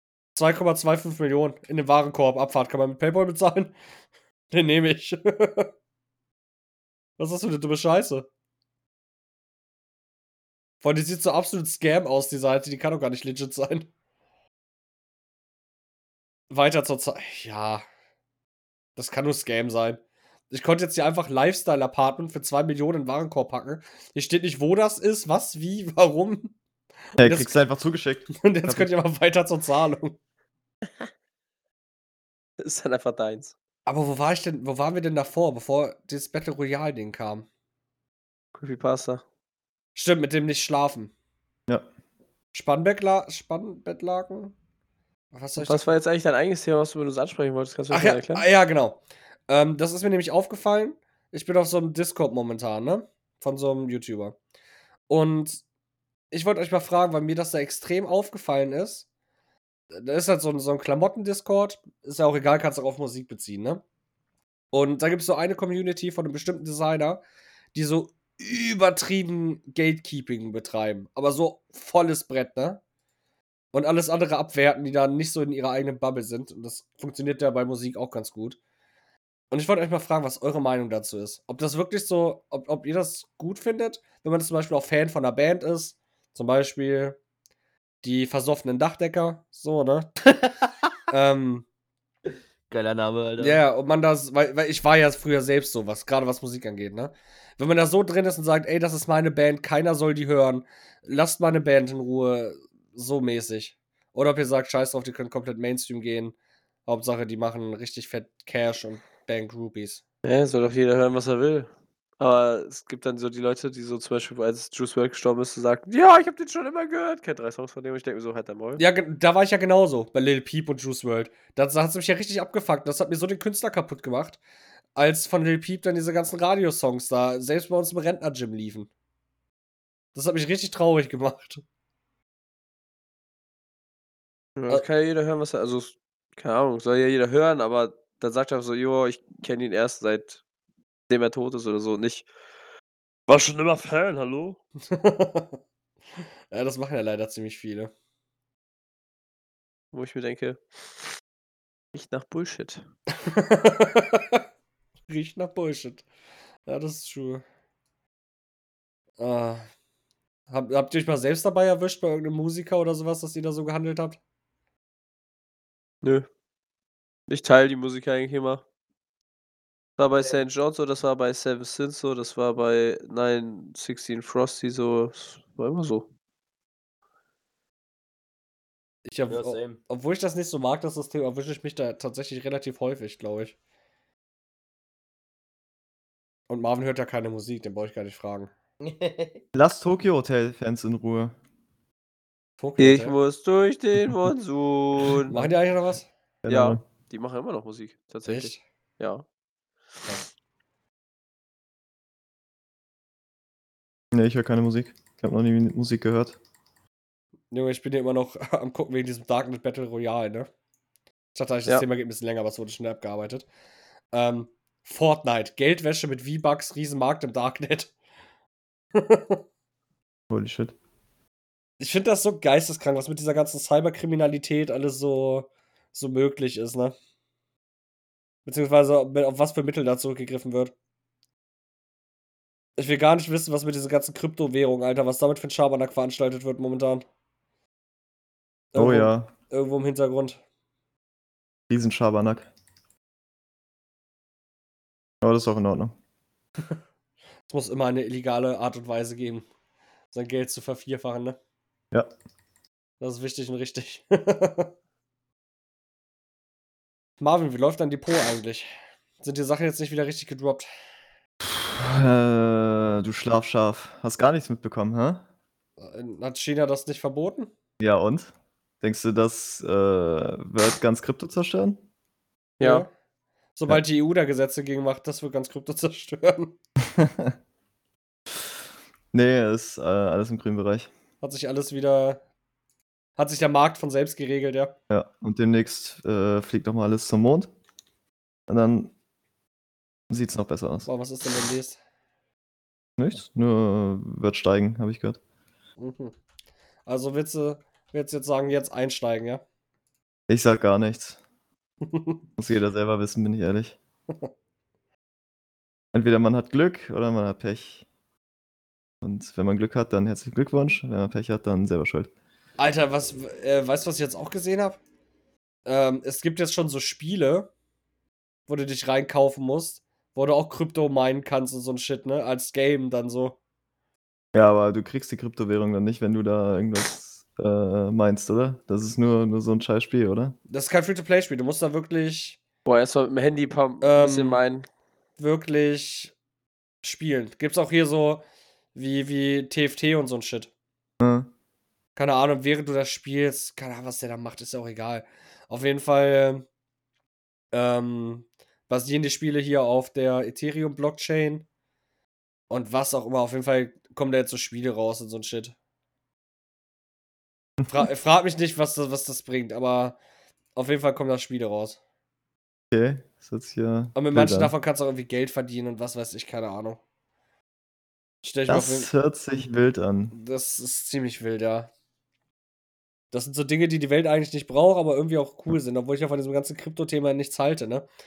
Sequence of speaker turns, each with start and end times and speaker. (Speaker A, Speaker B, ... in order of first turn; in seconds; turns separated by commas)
Speaker A: 0.3-3.8, Speaker A: 4.5-5.7, Speaker A: 7.2-8.3, Speaker A: 10.8-13.9, Speaker A: 16.5-17.8, Speaker A: 18.9-26.5, Speaker A: 27.2-27.6, Speaker B: 27.2-28.9, Speaker A: 28.4-30.2, Speaker C: 32.6-33.5, Speaker A: 33.9-37.5, Speaker C: 38.5-39.2, Speaker A: 39.9-41.1, Speaker A: 42.5-44.5, Speaker A: 45.3-45.9, Speaker C: 45.6-48.4, Speaker A: 47.9-54.4, Speaker A: 55.1-55.6, Speaker A: 56.3-59.0, Speaker A: 59.9-63.8, Speaker A: 64.7-67.2, Speaker A: 67.7-72.8, Speaker A: 73.7-78.6, Speaker A: 79.5-87.2, Speaker A: 88.0-90.1, Speaker A: 91.1-91.7, Speaker D: 92.7-93.6, Speaker A: 93.4-106.3, Speaker A: 106.8-110.0, Speaker C: 110.2-118.8, Speaker A: 118.8-124.4, Speaker A: 125.0-128.9, Speaker A: 130.1-131.6, Speaker C: 134.6-140.4, Speaker C: 141.1-142.2, Speaker C: 143.3-144.6, Speaker A: 144.9-145.6, Speaker A: 146.5-147.9, Speaker C: 149.9-150.6, Speaker C: 151.9-152.8, Speaker A: 153.2-154.4, Speaker A: 155.1-156.1, Speaker A: 156.7-157.4, Speaker A: 159.2-159.7, Speaker A: 160.5-164.2, Speaker C: 167.3-168.6, Speaker C: 170.0-176.1, Speaker A: 179.1-183.5, Speaker D: 179.3-179.8, Speaker A: 186.5-188.5, Speaker D: 188.8-189.4, Speaker B: 189.5-191.3, Speaker A: 192.6-193.1, Speaker C: 192.8-195.4, Speaker A: 195.3-196.1, Speaker B: 196.4-196.8, Speaker C: 196.5-199.2, Speaker A: 198.2-198.6, Speaker B: 204.1-206.3, Speaker A: 207.5-210.5, Speaker A: 211.3-213.4, Speaker A: 214.1-217.9, Speaker A: 218.9-219.4, Speaker B: 220.3-220.7, Speaker A: 221.8-226.9, Speaker A: 228.4-230.7, Speaker A: 232.8-237.0, Speaker A: 238.7-240.4, Speaker B: 238.7-239.3, Speaker B: 241.7-242.5, Speaker B: 245.2-245.9, Speaker A: 247.5-249.4, Speaker A: 250.1-251.4, Speaker A: 253.0-254.7, Speaker A: 257.2-260.7, Speaker B: 261.4-265.2, Speaker A: 265.8-267.5, Speaker B: 267.8-271.8, Speaker C: 272.6-272.9, Speaker A: 272.6-272.9, Speaker A: 273.6-276.5, Speaker B: 276.9-277.4, Speaker B: 279.1-280.9, Speaker A: 281.2-282.2, Speaker A: 283.2-284.7, Speaker B: 284.9-287.5, Speaker B: 288.5-288.9, Speaker B: 290.1-290.9, Speaker A: 290.9-291.8, Speaker B: 293.0-295.2, Speaker A: 295.8-296.1, Speaker A: 296.9-299.4, Speaker B: 300.3-301.2, Speaker A: 301.9-302.2, Speaker B: 302.4-303.8, Speaker B: 305.9-307.8, Speaker B: 309.0-312.1, Speaker A: 312.6-314.8, Speaker A: 315.6-317.5, Speaker A: 318.5-323.4, Speaker B: 324.3-330.4, Speaker A: 330.5-332.4, Speaker C: 332.6-334.6, Speaker A: 333.8-334.4, Speaker A: 335.2-336.1, Speaker A: 336.8-338.2, Speaker A: 338.7-340.5, Speaker B: 341.0-341.3, Speaker A: 341.9-346.4, Speaker A: 347.5-351.4, Speaker A: 352.5-355.5, Speaker A: 357.7-360.0, Speaker A: 360.5-361.8, Speaker B: 362.7-364.5, Speaker A: 363.9-366.8, Speaker A: 368.2-368.9, Speaker B: 368.5-370.1, Speaker A: 370.1-371.7, Speaker A: 373.1-377.9